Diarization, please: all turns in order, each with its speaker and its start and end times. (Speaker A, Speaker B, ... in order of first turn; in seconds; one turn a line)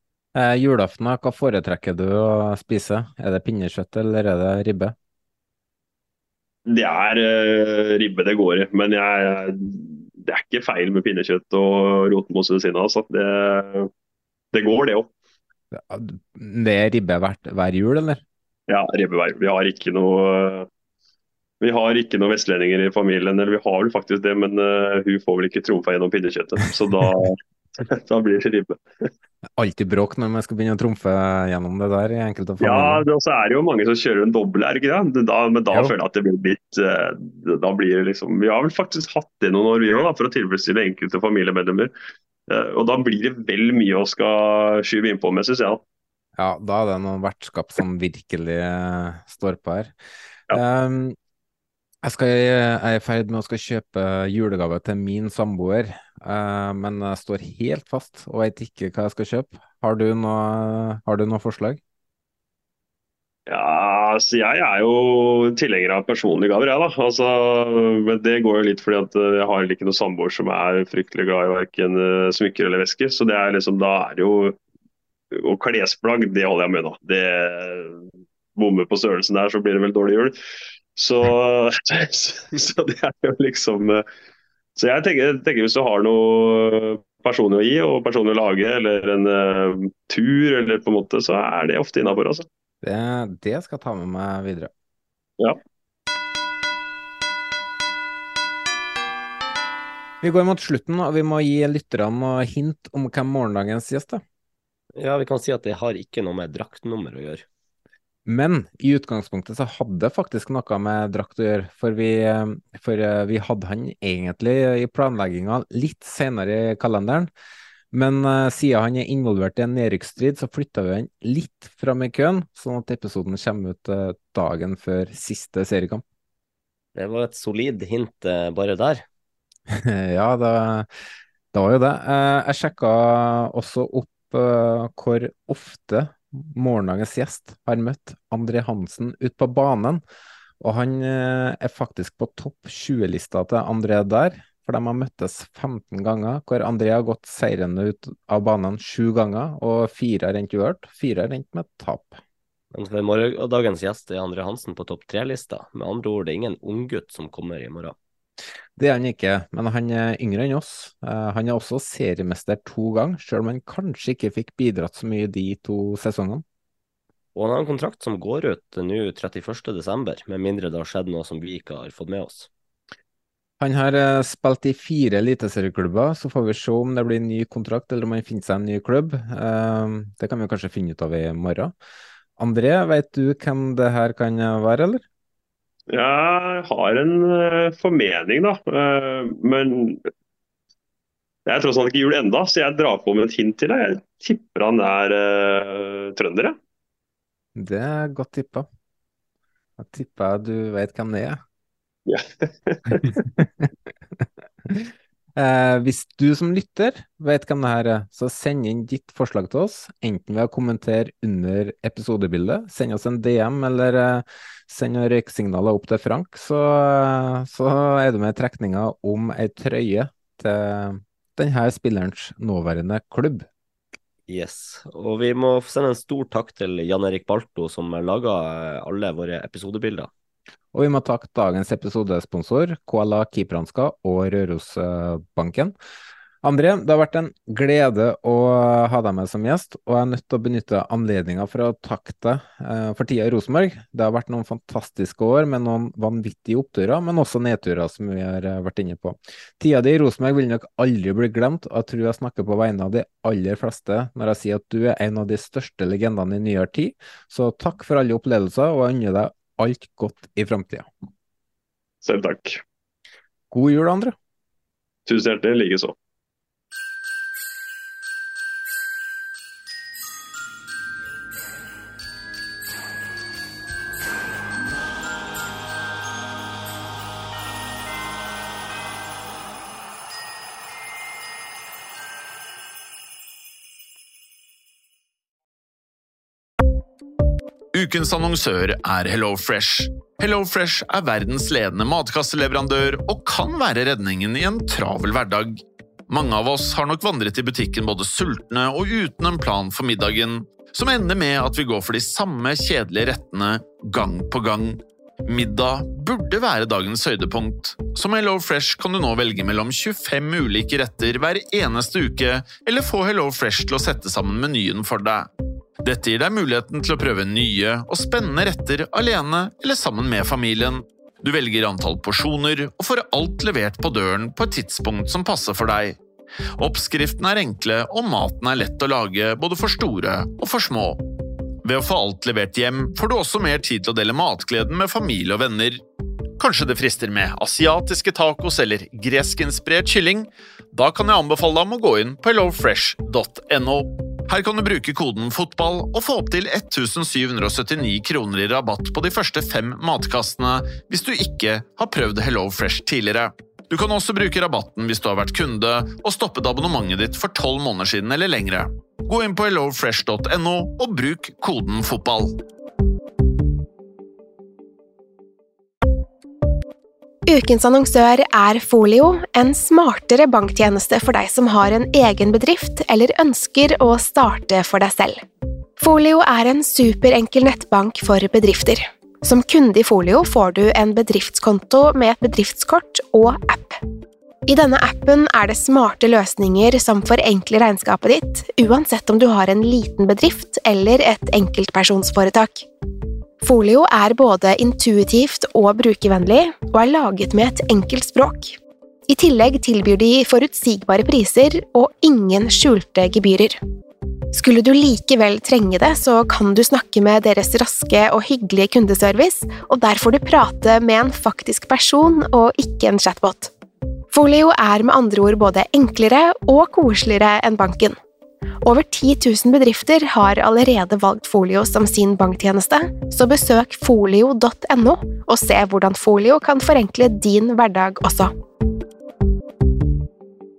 Speaker A: 0.3-5.0
Speaker B: 6.7-13.9
Speaker B: 14.5-15.1
Speaker A: 15.7-18.2
Speaker B: 18.7-20.7
Speaker B: 21.6-29.1
Speaker A: 29.6-33.1
Speaker B: 32.6-41.9
Speaker B: 42.5-45.8
Speaker A: 46.4-49.9
Speaker A: 50.5-51.2
Speaker A: 52.0-61.8
Speaker B: 63.5-74.6
Speaker B: 75.3-78.0
Speaker B: 78.6-80.3
Speaker B: 81.0-84.0
Speaker B: 84.8-92.5
Speaker A: 92.8-94.7
Speaker A: 100.2-104.2
Speaker C: 105.0-107.4
Speaker A: 108.3-117.3
Speaker A: 117.9-126.0
Speaker C: 127.0-129.1
Speaker A: 129.7-130.9
Speaker A: 131.5-140.0
Speaker A: 140.6-152.2
Speaker C: 152.7-158.0
Speaker A: 158.8-166.4
Speaker C: 167.3-172.5
Speaker A: 173.6-181.7
Speaker A: 182.4-185.0
Speaker B: 185.9-190.0
Speaker B: 191.5-196.6
Speaker A: 197.6-198.7
Speaker A: 199.8-201.4
Speaker B: 202.1-203.3
Speaker A: 204.7-223.5
Speaker C: 224.3-230.1
Speaker A: 230.7-235.8
Speaker A: 236.4-260.9
Speaker B: 262.0-262.6
Speaker A: 263.5-264.1
Speaker B: 265.1-265.9
Speaker D: 287.7-315.3
Speaker D: 315.8-326.0
Speaker D: 326.6-331.0
Speaker D: 331.6-335.8
Speaker D: 336.4-362.4
Speaker E: 367.3-375.2
Speaker E: 375.8-383.8
Speaker E: 384.5-392.7
Speaker E: 393.4-398.6
Speaker E: 399.1-403.6
Speaker E: 404.3-413.5
Speaker E: 414.1-418.0
Speaker E: 418.6-428.3